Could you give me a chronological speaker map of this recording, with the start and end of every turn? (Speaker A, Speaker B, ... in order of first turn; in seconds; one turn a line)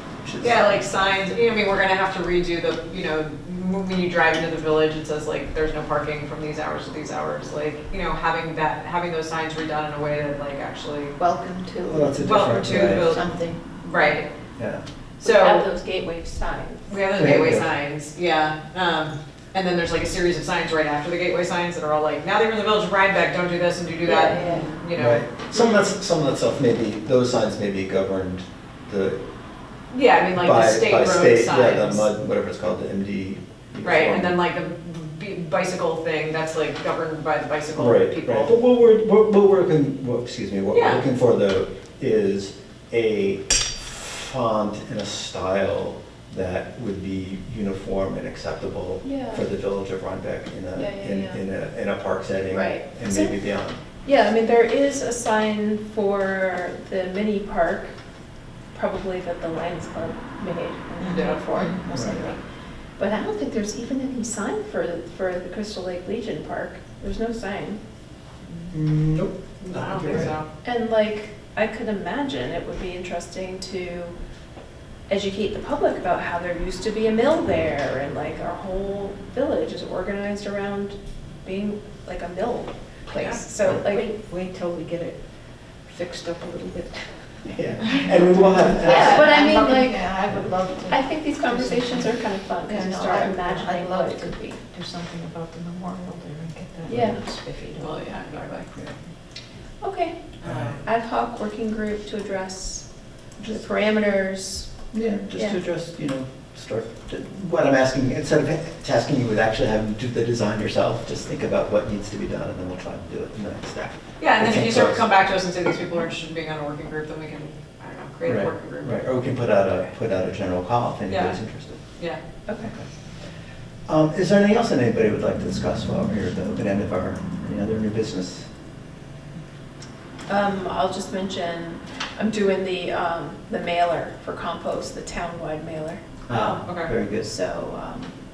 Speaker A: 0.2-0.8
Speaker B: 0.4-11.2
Speaker C: 11.2-13.6
Speaker A: 11.8-13.1
Speaker B: 12.2-14.3
Speaker A: 14.6-14.8
Speaker B: 15.2-15.7
Speaker D: 15.2-17.0
Speaker B: 16.9-25.3
Speaker A: 17.1-17.7
Speaker D: 24.0-24.8
Speaker A: 24.9-29.2
Speaker B: 29.9-32.1
Speaker A: 30.4-34.4
Speaker B: 33.8-38.5
Speaker A: 37.7-53.8
Speaker B: 40.7-41.0
Speaker D: 49.0-49.5
Speaker D: 50.8-51.4
Speaker D: 52.5-53.4
Speaker D: 54.0-57.9
Speaker D: 58.7-62.4
Speaker C: 61.0-62.3
Speaker B: 61.0-61.4
Speaker A: 61.9-62.3
Speaker D: 63.0-67.8
Speaker A: 68.7-70.3
Speaker B: 69.6-70.5
Speaker D: 70.6-74.2
Speaker D: 75.1-84.1
Speaker B: 83.1-83.4
Speaker C: 83.6-85.2
Speaker C: 85.9-87.1
Speaker A: 87.5-89.4
Speaker C: 87.9-98.1
Speaker D: 88.8-90.2
Speaker D: 90.8-94.6
Speaker D: 96.9-97.2
Speaker A: 96.9-97.2
Speaker B: 97.8-98.7
Speaker D: 99.8-102.8
Speaker B: 100.4-100.8
Speaker A: 100.4-100.8
Speaker D: 103.4-104.7
Speaker A: 104.9-115.1
Speaker D: 105.3-105.6
Speaker B: 114.2-119.1
Speaker A: 118.2-121.8
Speaker B: 121.1-121.4
Speaker D: 122.5-122.7
Speaker A: 123.9-128.5
Speaker D: 130.3-136.0
Speaker A: 136.3-137.3
Speaker B: 136.3-136.9
Speaker D: 137.2-138.1